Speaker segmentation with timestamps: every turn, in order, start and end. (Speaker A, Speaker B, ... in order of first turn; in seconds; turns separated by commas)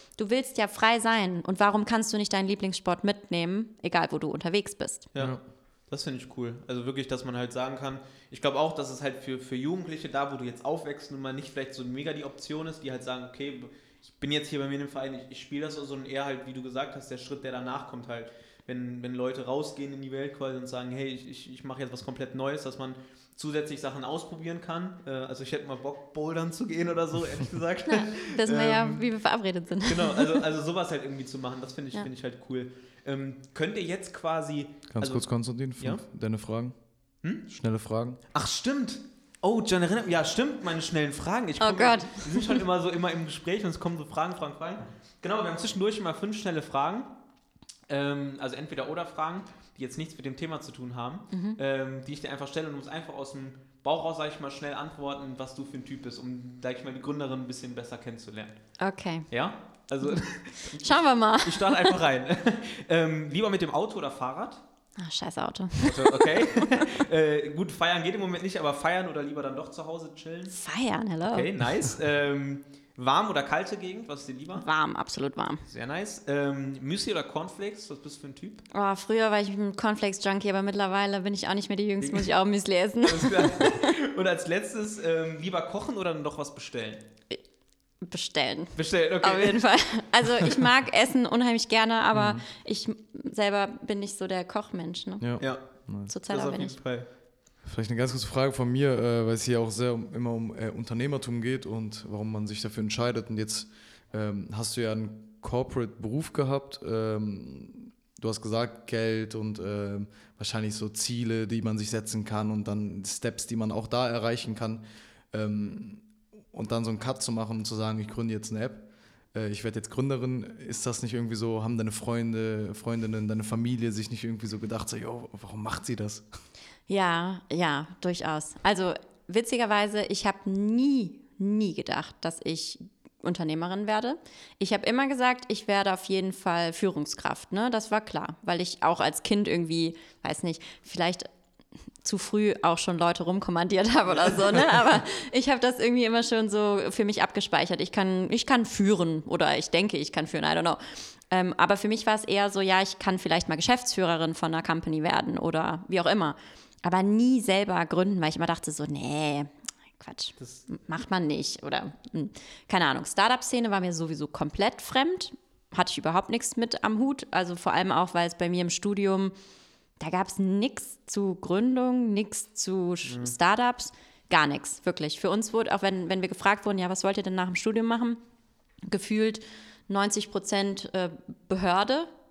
Speaker A: 0.2-5.1, Speaker B: 5.1-29.1, Speaker A: 27.9-30.4, Speaker B: 29.8-35.3, Speaker C: 34.9-36.7, Speaker C: 37.5-38.2, Speaker B: 38.3-47.1, Speaker A: 41.6-42.6, Speaker B: 47.9-58.6, Speaker A: 51.3-51.6, Speaker A: 58.8-59.3, Speaker B: 59.3-64.6, Speaker A: 60.7-62.0, Speaker A: 65.0-66.8, Speaker B: 65.8-70.5, Speaker A: 70.5-71.5, Speaker B: 71.2-74.7, Speaker A: 74.6-75.6, Speaker B: 75.7-78.6, Speaker A: 78.7-83.9, Speaker B: 82.0-82.3, Speaker B: 83.0-87.0, Speaker A: 88.0-96.8, Speaker B: 88.8-89.6, Speaker C: 92.1-92.4, Speaker C: 95.2-96.1, Speaker B: 95.4-97.1, Speaker C: 97.6-114.8, Speaker C: 115.3-126.3, Speaker A: 126.9-141.3, Speaker A: 142.0-169.3, Speaker B: 144.1-144.8, Speaker A: 170.0-178.2, Speaker B: 173.0-173.3, Speaker A: 178.9-182.1